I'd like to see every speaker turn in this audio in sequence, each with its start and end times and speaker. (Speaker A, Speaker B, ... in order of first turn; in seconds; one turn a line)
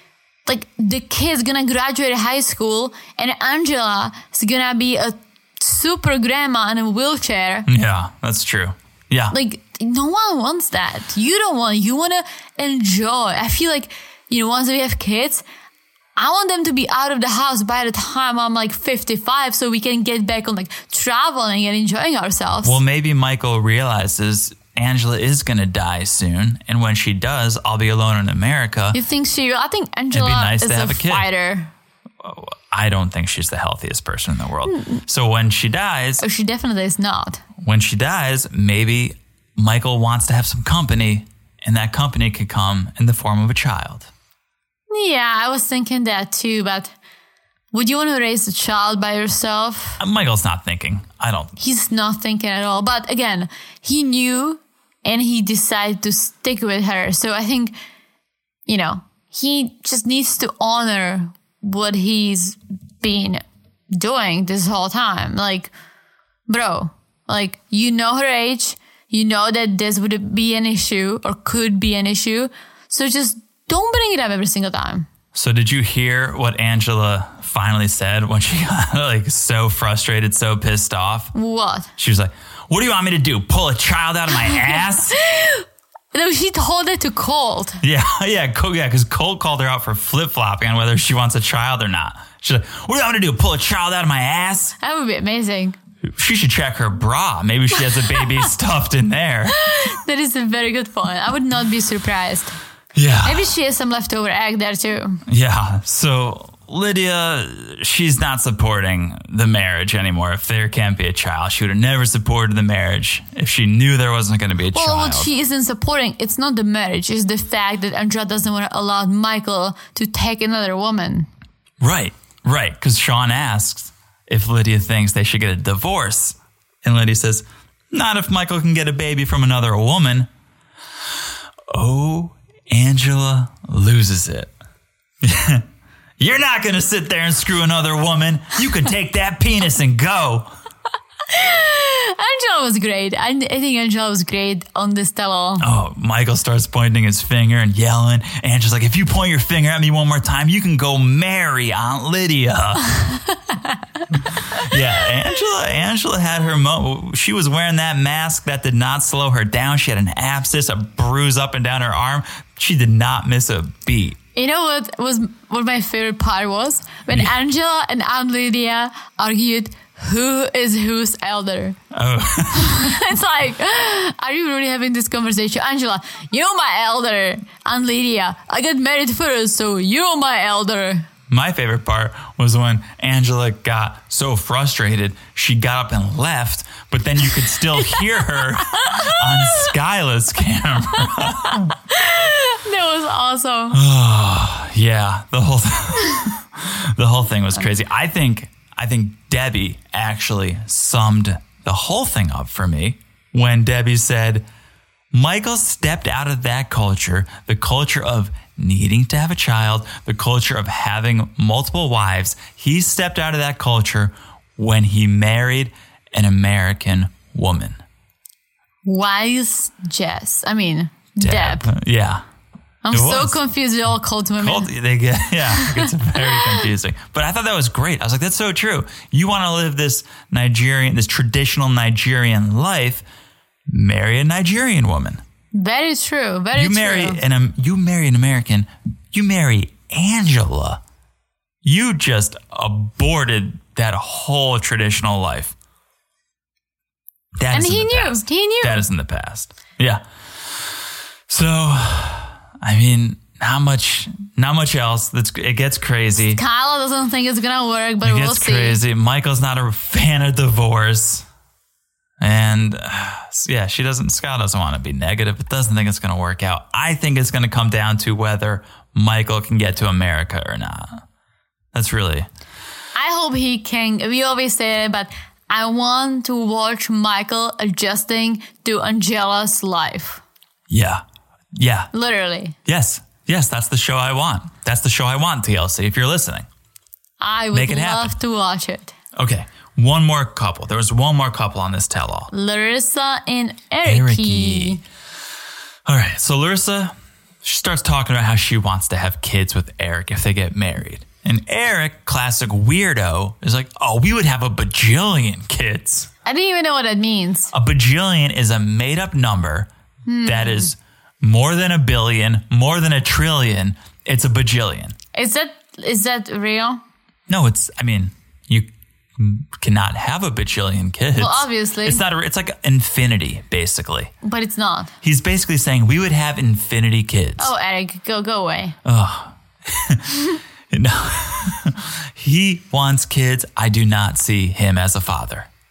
Speaker A: 0.5-7.7
Speaker B: 7.7-9.3
Speaker A: 9.3-15.4
Speaker A: 16.2-22.8
Speaker B: 22.6-29.0
Speaker A: 28.9-31.7
Speaker B: 30.1-31.3
Speaker B: 32.2-36.2
Speaker A: 34.7-35.0
Speaker A: 36.2-37.4
Speaker B: 37.6-44.1
Speaker A: 44.9-46.9
Speaker A: 47.7-50.0
Speaker B: 50.0-51.6
Speaker A: 51.6-57.7
Speaker A: 58.7-65.7
Speaker A: 66.5-75.1
Speaker B: 75.3-81.3
Speaker A: 81.3-81.9
Speaker B: 82.0-85.2
Speaker A: 84.3-87.8
Speaker B: 87.8-94.8
Speaker A: 94.8-95.8
Speaker B: 96.0-99.8
Speaker A: 98.0-98.5
Speaker A: 99.5-102.5
Speaker B: 103.0-103.5
Speaker A: 103.2-105.2
Speaker B: 105.3-115.3
Speaker A: 114.7-121.3
Speaker B: 121.8-130.3
Speaker B: 131.7-134.5
Speaker B: 135.2-135.7
Speaker B: 136.2-140.5
Speaker A: 141.3-145.7
Speaker B: 145.6-153.0
Speaker A: 153.3-153.8
Speaker B: 154.1-164.2
Speaker A: 164.3-171.8
Speaker B: 171.9-173.0
Speaker A: 172.5-181.1
Speaker B: 181.3-191.8
Speaker A: 188.8-189.7
Speaker A: 191.1-193.8
Speaker B: 193.7-204.5
Speaker B: 205.1-217.8
Speaker A: 218.8-221.7
Speaker B: 221.2-222.2
Speaker A: 222.8-224.7
Speaker B: 222.9-223.4
Speaker B: 224.4-233.0
Speaker A: 225.5-226.7
Speaker B: 233.7-235.2
Speaker A: 235.5-237.2
Speaker B: 236.5-240.8
Speaker B: 241.6-245.6
Speaker B: 247.4-250.8
Speaker A: 247.5-248.8
Speaker B: 251.3-256.4
Speaker A: 256.2-258.8
Speaker B: 258.0-261.3
Speaker B: 262.2-271.0
Speaker B: 271.7-272.3
Speaker A: 272.9-280.2
Speaker B: 280.7-281.9
Speaker A: 281.9-282.6
Speaker B: 282.7-286.5
Speaker A: 287.2-288.9
Speaker B: 287.5-288.1
Speaker B: 289.1-292.3
Speaker A: 292.3-294.8
Speaker B: 293.8-294.8
Speaker B: 295.9-306.1
Speaker A: 306.2-307.5
Speaker B: 307.5-309.7
Speaker A: 310.1-310.7
Speaker B: 310.2-315.0
Speaker A: 315.1-316.8
Speaker B: 317.3-324.1
Speaker A: 321.2-322.0
Speaker A: 324.2-324.9
Speaker B: 325.0-327.5
Speaker A: 327.4-328.8
Speaker B: 328.9-335.5